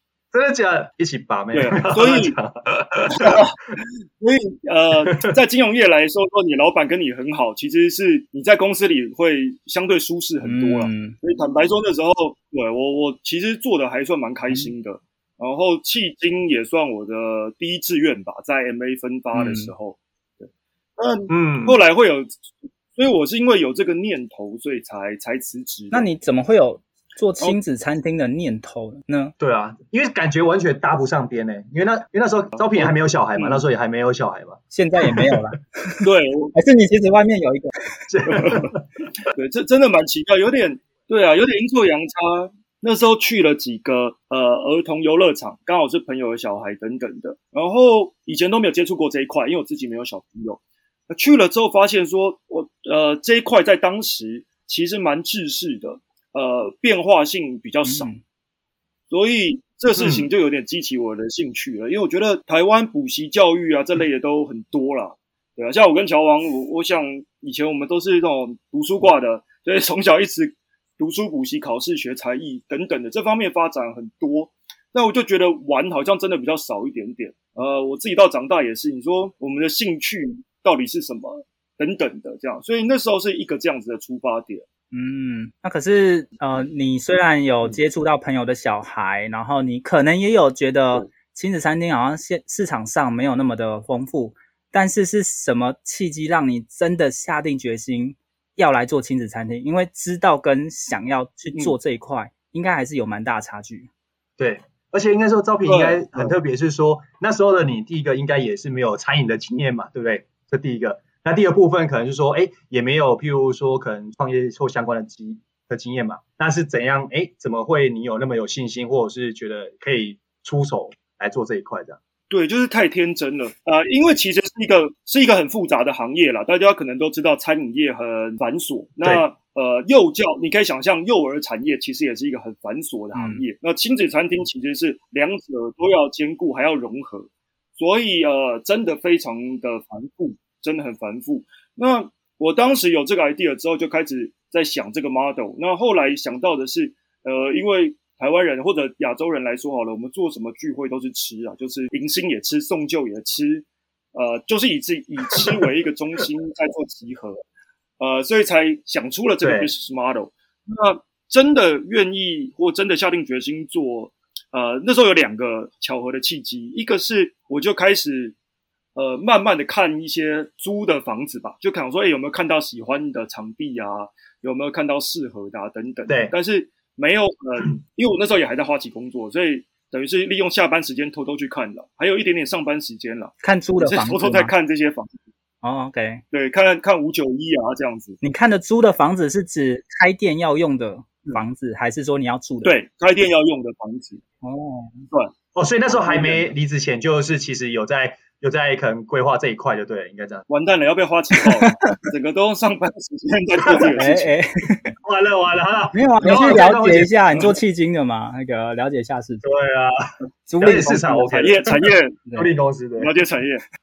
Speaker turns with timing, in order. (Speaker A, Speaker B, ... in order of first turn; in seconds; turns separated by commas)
Speaker A: 0.3-3.4, Speaker B: 1.5-2.4, Speaker B: 3.1-26.1, Speaker C: 10.4-11.2, Speaker C: 19.3-19.7, Speaker A: 21.3-21.8, Speaker C: 25.9-29.3, Speaker A: 29.4-34.6, Speaker B: 32.6-32.9, Speaker C: 34.7-36.0, Speaker B: 36.0-36.5, Speaker C: 36.5-37.7, Speaker A: 38.1-38.8, Speaker B: 38.3-38.7, Speaker B: 39.3-58.1, Speaker C: 57.9-58.2, Speaker B: 59.1-84.7, Speaker A: 60.0-60.3, Speaker C: 84.9-103.9, Speaker A: 104.4-122.0, Speaker B: 105.7-106.3, Speaker B: 122.3-157.4, Speaker C: 133.1-133.4, Speaker B: 158.0-168.3, Speaker A: 159.4-159.7, Speaker B: 168.9-185.2, Speaker A: 176.1-176.3, Speaker C: 183.4-184.5, Speaker C: 185.6-186.2, Speaker B: 186.3-188.2, Speaker C: 188.2-192.8, Speaker B: 192.6-194.2, Speaker C: 194.4-195.0, Speaker A: 195.6-200.5, Speaker B: 196.0-196.5, Speaker B: 200.5-204.3, Speaker C: 201.4-201.9, Speaker A: 203.7-204.0, Speaker C: 204.0-204.9, Speaker A: 205.0-207.2, Speaker C: 205.9-209.5, Speaker A: 209.4-210.0, Speaker C: 210.5-211.6, Speaker A: 210.6-213.1, Speaker B: 211.4-212.2, Speaker B: 213.0-213.7